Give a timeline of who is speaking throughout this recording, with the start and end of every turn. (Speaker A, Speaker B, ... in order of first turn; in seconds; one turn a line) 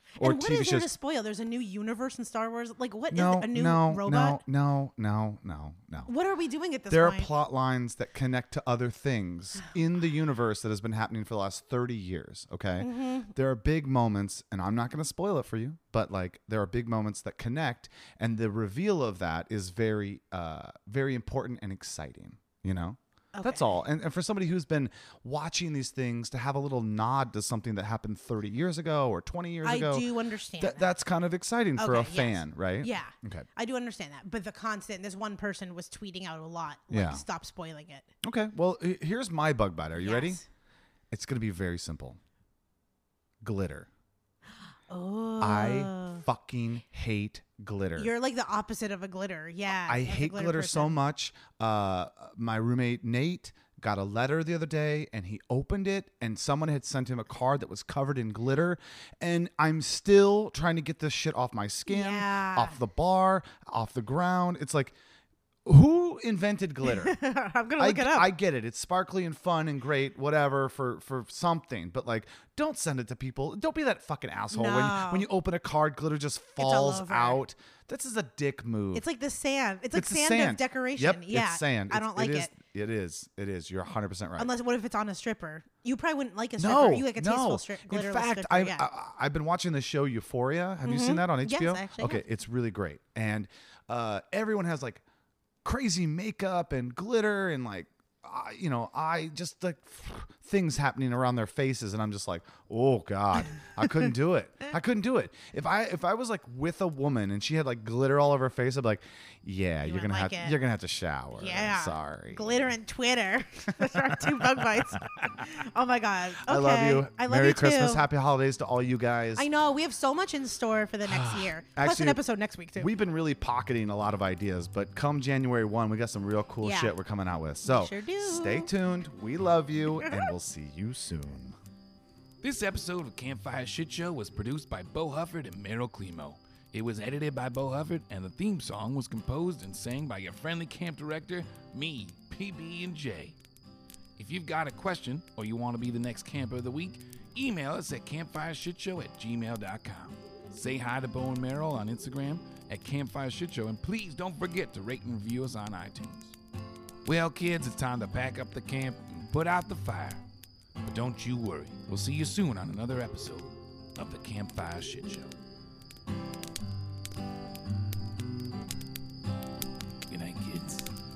Speaker A: 0.2-4.4
Speaker B: 0.2-0.9
Speaker B: 3.1-6.1
Speaker A: 6.1-7.3
Speaker B: 6.9-30.1
Speaker A: 12.8-13.3
Speaker A: 23.3-23.8
Speaker A: 29.6-30.9
Speaker B: 30.6-33.5
Speaker A: 31.8-38.1
Speaker B: 36.9-37.2
Speaker B: 38.2-40.4
Speaker A: 40.0-40.4
Speaker B: 41.1-42.2
Speaker B: 43.4-43.9
Speaker A: 44.9-46.2
Speaker B: 45.4-48.1
Speaker A: 48.0-51.0
Speaker B: 49.9-64.9
Speaker A: 61.9-62.8
Speaker B: 65.7-67.2
Speaker A: 66.9-68.3
Speaker B: 67.8-79.0
Speaker A: 74.5-75.3
Speaker A: 76.6-77.4
Speaker A: 79.0-82.5
Speaker B: 79.9-84.5
Speaker A: 84.4-88.9
Speaker B: 86.6-95.0
Speaker A: 90.8-92.2
Speaker B: 95.6-112.6
Speaker A: 109.8-110.6
Speaker A: 111.4-118.0
Speaker B: 113.9-114.6
Speaker B: 116.4-119.5
Speaker A: 119.4-122.9
Speaker B: 121.0-122.2
Speaker B: 122.8-131.6
Speaker A: 126.6-127.0
Speaker A: 127.6-128.7
Speaker C: 132.4-143.4
Speaker C: 144.2-156.4
Speaker C: 157.1-160.2
Speaker C: 160.8-165.4
Speaker C: 170.1-170.9